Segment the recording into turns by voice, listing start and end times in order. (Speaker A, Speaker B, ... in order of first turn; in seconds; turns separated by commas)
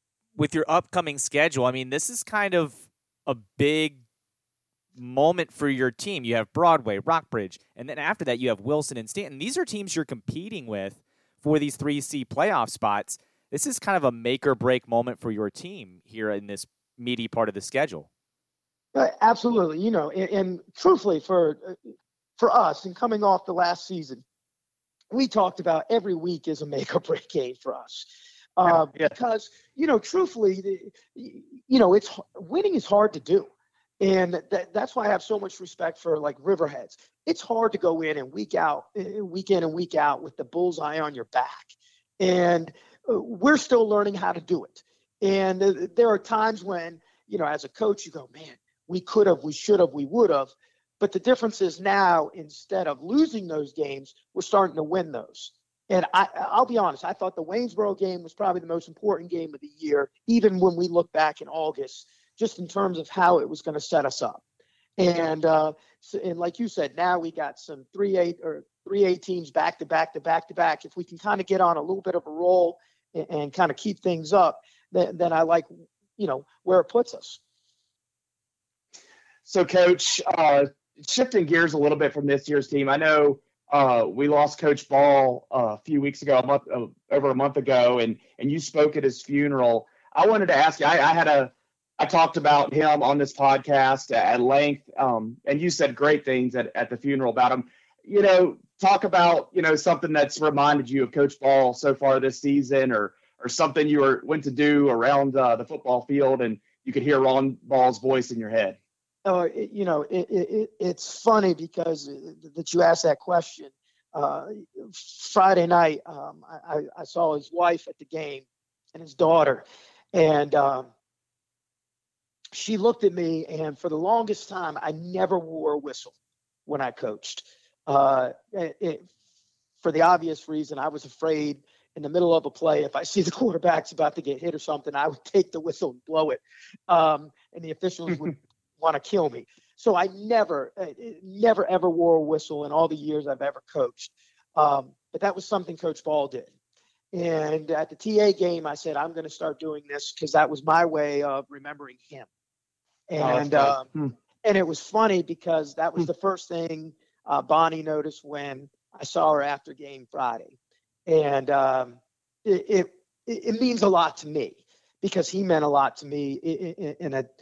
Speaker A: 0.3-4.0, Speaker A: 5.0-18.1, Speaker B: 18.9-21.8, Speaker B: 22.4-24.2, Speaker B: 25.1-64.4, Speaker C: 28.7-29.1, Speaker B: 65.0-77.4, Speaker C: 79.4-108.8, Speaker B: 109.2-120.9, Speaker B: 122.5-126.1, Speaker B: 126.7-129.1, Speaker B: 129.8-146.5, Speaker B: 147.1-152.3, Speaker B: 153.1-153.9, Speaker C: 153.2-154.1, Speaker B: 154.4-160.5, Speaker B: 161.1-167.3